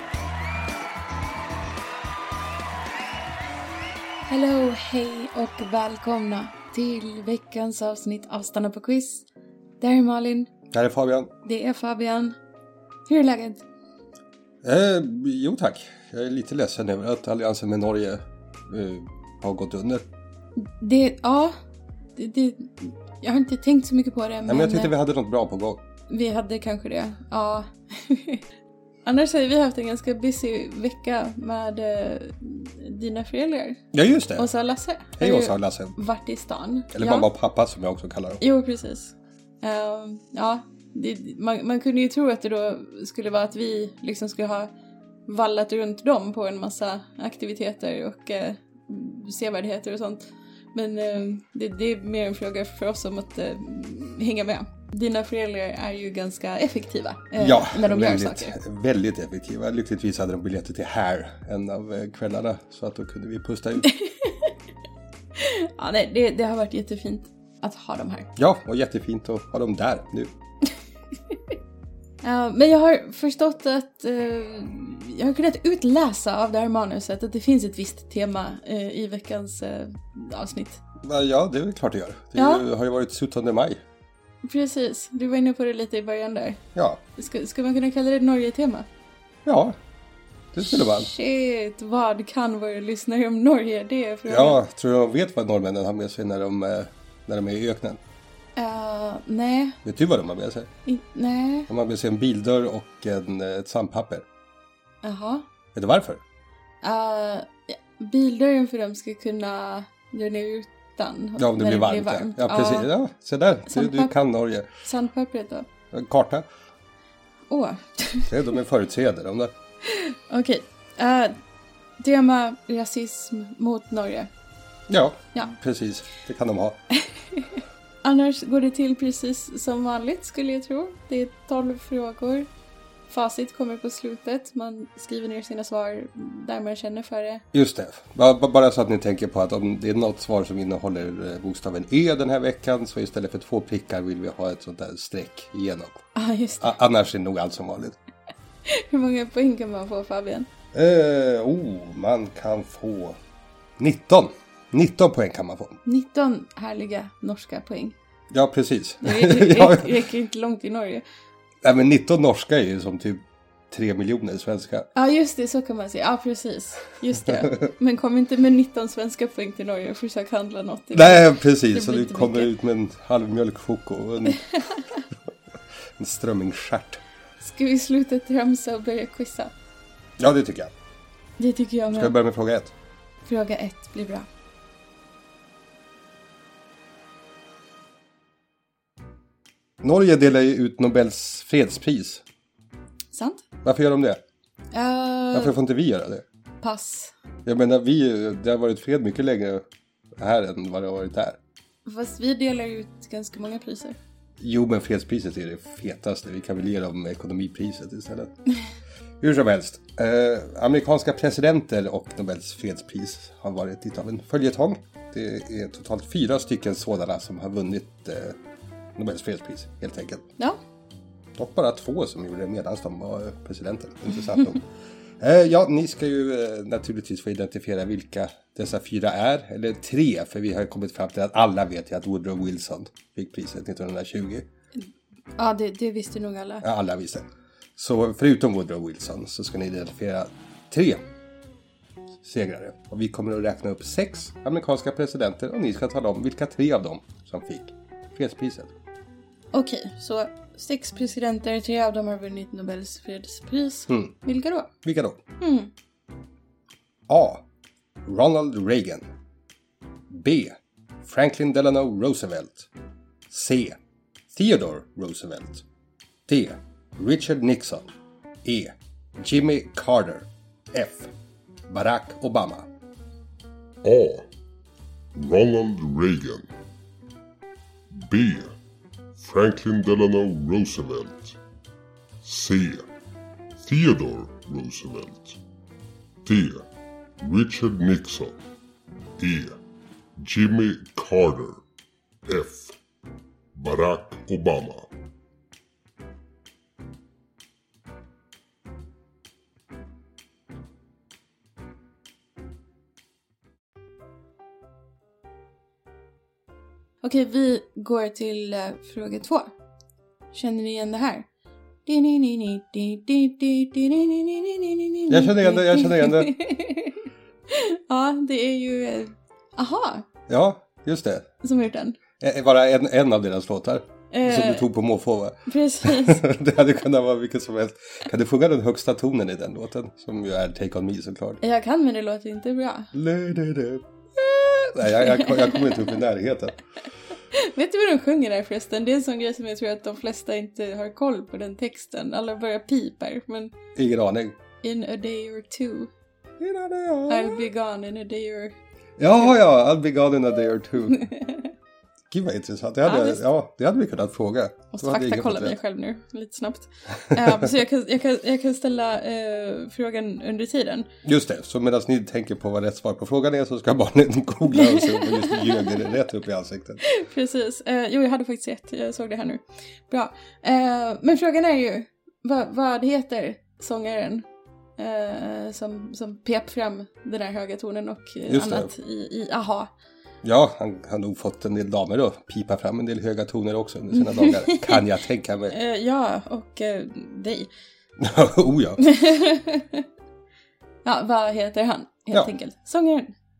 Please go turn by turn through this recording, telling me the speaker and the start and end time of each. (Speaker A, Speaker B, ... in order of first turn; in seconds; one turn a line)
Speaker A: 4.3-9.2
Speaker A: 9.8-10.5
Speaker B: 10.7-11.3
Speaker A: 11.4-12.3
Speaker A: 13.1-13.6
Speaker B: 14.6-20.0
Speaker A: 20.6-21.5
Speaker A: 22.1-24.9
Speaker B: 24.5-25.8
Speaker A: 26.1-28.4
Speaker A: 29.0-33.8
Speaker B: 33.9-34.5
Speaker A: 34.4-37.3
Speaker B: 35.2-36.0
Speaker B: 36.9-38.4
Speaker A: 38.4-44.7
Speaker A: 45.3-58.5
Speaker B: 57.4-63.9
Speaker A: 63.8-64.5
Speaker A: 65.3-68.3
Speaker B: 68.3-70.3
Speaker A: 72.2-80.8
Speaker B: 81.0-83.8
Speaker A: 82.3-82.6
Speaker A: 84.4-86.6
Speaker B: 86.7-87.0
Speaker A: 87.2-88.9
Speaker B: 89.4-89.8
Speaker B: 90.5-91.1
Speaker A: 90.7-94.6
Speaker B: 94.3-98.0
Speaker A: 98.5-99.8
Speaker B: 99.8-100.7
Speaker A: 100.8-101.7
Speaker B: 101.7-104.2
Speaker A: 105.0-105.4
Speaker B: 105.7-106.2
Speaker A: 106.8-112.9
Speaker B: 111.4-114.7
Speaker A: 113.7-114.1
Speaker A: 114.8-115.7
Speaker B: 115.9-116.5
Speaker A: 117.5-118.3
Speaker B: 118.3-119.5
Speaker A: 119.8-121.3
Speaker A: 122.0-124.3
Speaker B: 124.9-126.8
Speaker A: 127.3-132.5
Speaker A: 133.1-137.4
Speaker B: 137.5-146.0
Speaker A: 146.1-146.7
Speaker B: 146.6-148.0
Speaker A: 148.7-150.5
Speaker B: 150.7-153.2
Speaker B: 153.8-155.8
Speaker A: 155.8-157.9
Speaker B: 158.3-159.9
Speaker A: 159.0-161.0
Speaker B: 161.6-164.9
Speaker A: 164.9-172.5
Speaker B: 170.9-174.6
Speaker B: 176.0-177.0
Speaker A: 177.4-179.5
Speaker B: 180.2-180.7
Speaker A: 181.4-182.2
Speaker B: 181.9-182.7
Speaker A: 183.2-184.3
Speaker B: 189.8-192.2
Speaker A: 193.1-193.4
Speaker B: 193.6-194.2
Speaker A: 194.7-195.6
Speaker B: 195.3-196.2
Speaker A: 196.6-197.1
Speaker B: 197.4-199.6
Speaker B: 200.2-201.4
Speaker A: 201.8-204.0
Speaker B: 204.4-208.3
Speaker B: 209.2-218.3
Speaker B: 219.0-220.2
Speaker B: 221.4-224.6
Speaker B: 225.2-234.5
Speaker A: 235.4-236.6
Speaker B: 236.6-237.2
Speaker B: 237.8-241.0
Speaker B: 242.2-248.7
Speaker A: 249.5-254.7
Speaker B: 253.9-254.1
Speaker B: 254.8-255.2
Speaker A: 255.4-255.7
Speaker B: 257.1-257.4
Speaker B: 258.0-259.1
Speaker B: 260.1-262.6
Speaker B: 263.3-263.8
Speaker B: 264.3-265.6
Speaker B: 266.3-267.9
Speaker B: 268.4-271.1
Speaker B: 271.7-272.7
Speaker C: 273.8-274.3
Speaker C: 275.1-276.5
Speaker C: 277.9-278.5
Speaker C: 279.2-281.4
Speaker C: 282.2-282.9
Speaker C: 283.6-285.4
Speaker C: 286.2-286.7
Speaker C: 287.2-288.4
Speaker C: 289.2-289.6
Speaker C: 290.2-291.6
Speaker C: 292.3-292.8
Speaker C: 293.5-294.9
Speaker A: 307.0-309.5
Speaker A: 310.3-311.3
Speaker A: 311.9-320.0
Speaker B: 315.1-316.3
Speaker B: 320.3-321.3
Speaker A: 321.4-322.0
Speaker B: 322.2-331.4
Speaker A: 324.1-324.7
Speaker A: 325.5-326.2
Speaker A: 331.4-332.9
Speaker B: 332.9-336.6
Speaker A: 334.8-335.9
Speaker A: 337.3-343.5
Speaker B: 343.7-344.4
Speaker A: 344.6-345.9
Speaker B: 346.4-347.4
Speaker A: 347.1-348.6
Speaker B: 349.0-351.0
Speaker A: 350.9-351.5
Speaker B: 352.1-355.6
Speaker A: 352.8-353.2
Speaker A: 354.7-360.9
Speaker B: 357.0-357.5
Speaker B: 361.0-366.8
Speaker A: 364.5-365.7
Speaker A: 366.8-374.2
Speaker A: 374.8-379.7
Speaker B: 378.3-378.7
Speaker B: 380.2-385.6
Speaker A: 383.9-384.8
Speaker A: 385.5-387.5
Speaker B: 388.0-388.8
Speaker A: 388.8-389.8
Speaker A: 390.8-393.1